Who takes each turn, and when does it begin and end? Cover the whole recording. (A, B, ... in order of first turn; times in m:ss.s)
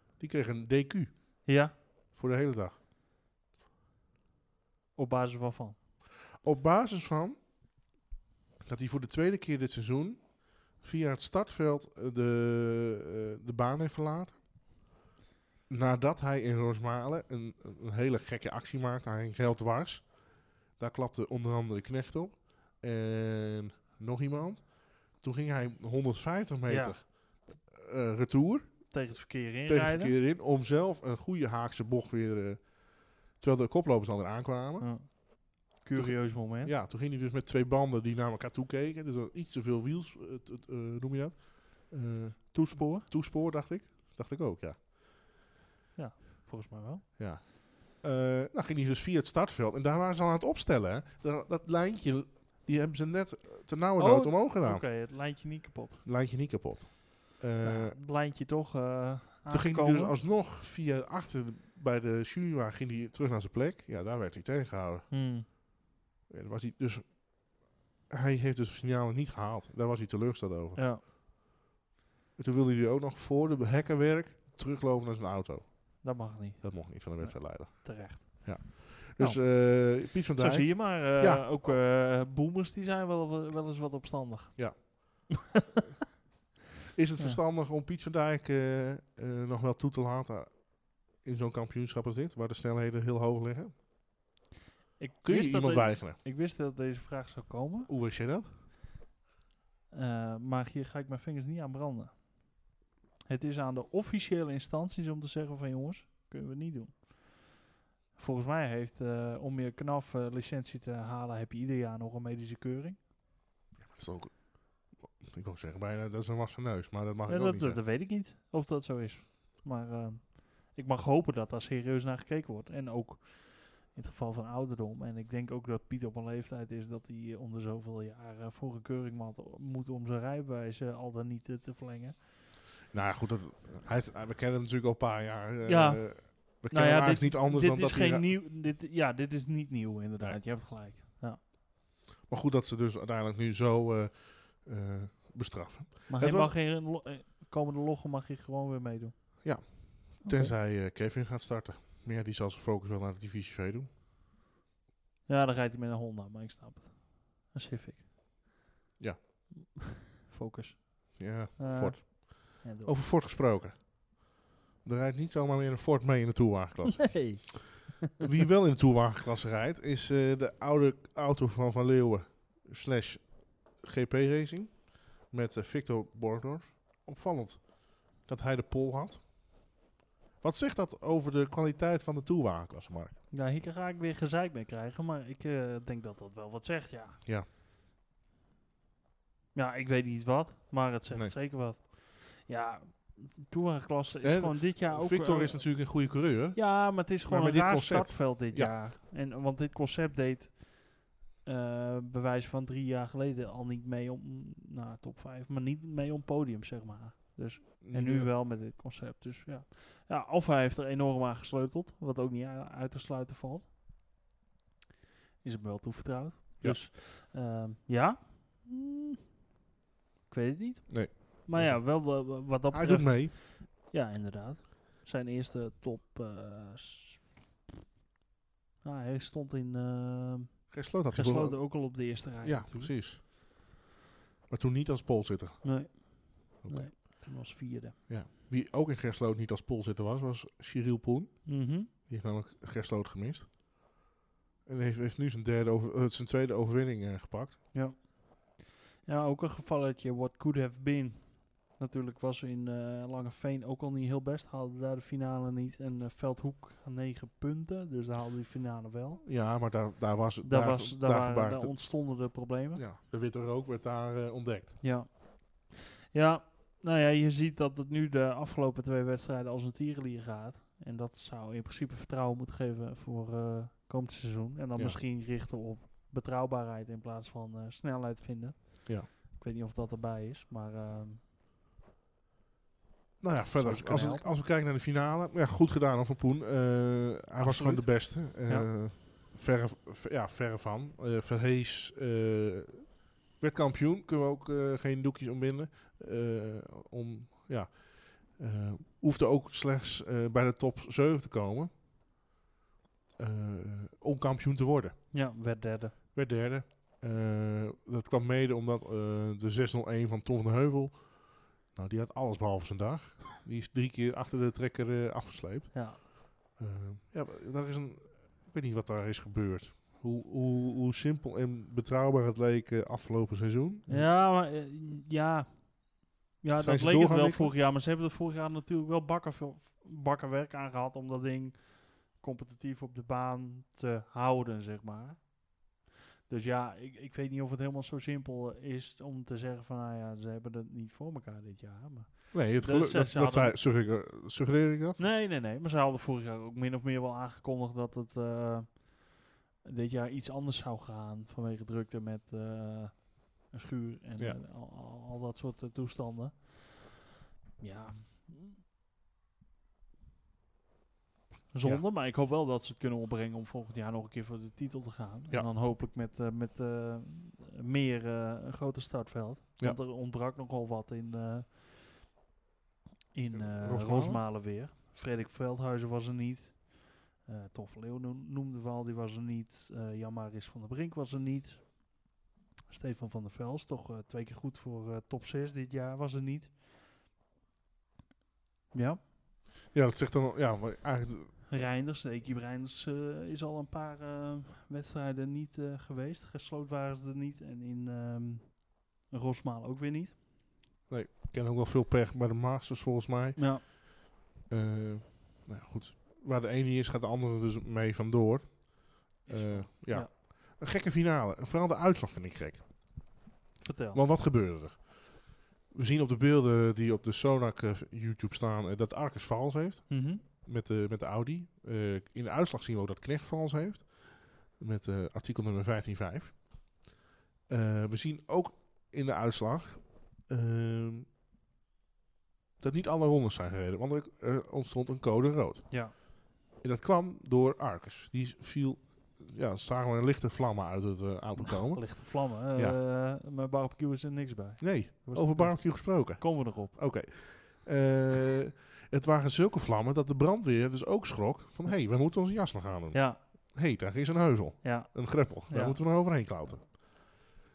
0:00.2-0:02.8 A
0:01.4-0:01.7 B
0:05.0-0:05.8 B
0:06.4-0:07.4 A
0:08.6-0:14.4 A
0:15.7-0:29.1 A
0:26.7-0:27.0 B
0:28.9-0:30.2 B
0:29.7-0:35.2 A
0:34.8-0:36.7 B
0:35.9-0:44.8 A
0:42.5-0:43.1 B
0:46.0-0:47.1 B
0:47.2-0:54.9 A
0:54.0-0:56.1 B
0:56.0-0:58.0 A
0:57.6-1:00.2 B
0:59.5-1:05.1 A
1:05.1-1:05.5 B
1:06.3-1:10.9 A
1:10.8-1:11.0 B
1:12.4-1:21.8 A
1:16.0-1:25.1 B
1:24.6-1:25.3 A
1:26.9-1:33.8 A
1:35.0-1:37.9 B
1:35.2-1:36.2 A
1:37.9-1:38.5 A
1:39.9-1:42.6 B
1:43.3-1:47.5 B
1:48.2-1:53.0 B
1:53.8-1:57.8 A
1:57.3-2:12.2 B
2:12.9-2:18.4 A
2:15.6-2:21.4 B
2:22.2-2:26.5 A
2:26.1-2:30.5 B
2:29.4-2:33.9 A
2:35.3-2:38.1 B
2:39.6-2:43.0 B
2:41.2-2:44.2 A
2:44.8-2:47.6 A
2:47.1-2:47.6 B
2:48.2-2:59.6 A
3:00.4-3:03.2 A
3:03.3-3:07.2 B
3:09.5-3:33.7 B
3:11.1-3:11.4 A
3:14.2-3:18.8 A
3:27.8-3:28.3 A
3:35.4-3:39.2 B
3:40.3-3:47.4 B
3:40.9-3:43.4 A
3:48.8-3:52.9 B
3:50.7-3:53.2 A
3:54.5-3:55.9 A
3:55.6-3:58.0 B
3:56.6-3:57.0 A
3:58.1-4:03.6 A
4:01.5-4:01.9 B
4:04.6-4:07.6 A
4:07.7-4:19.3 B
4:19.2-4:24.8 A
4:20.4-4:22.8 B
4:24.8-4:41.2 B
4:43.2-5:01.7 A
4:43.6-4:44.3 B
4:47.4-4:48.7 B
5:03.2-5:05.0 A
5:05.1-5:06.0 B
5:06.1-5:24.1 A
5:15.7-5:16.0 B
5:23.9-5:43.6 B
5:26.6-5:27.5 A
5:42.3-5:45.0 A
5:45.0-5:57.0 B
5:57.6-5:58.6 B
6:01.5-6:12.0 B
6:13.1-6:22.0 B
6:13.3-6:14.2 A
6:22.7-6:26.5 B
6:28.7-6:29.0 B
6:29.7-6:31.7 A
6:31.5-6:40.2 B
6:40.9-6:43.8 A
6:43.4-6:43.6 B
6:44.5-6:53.2 A
6:49.2-6:50.1 B
6:53.6-6:54.0 B
6:53.9-7:06.7 A
6:59.9-7:00.2 B
7:07.5-7:11.1 A
7:12.6-7:16.1 A
7:16.6-7:22.8 A
7:21.4-7:26.8 B
7:24.6-7:37.2 A
7:32.9-7:33.2 B
7:34.6-7:35.8 B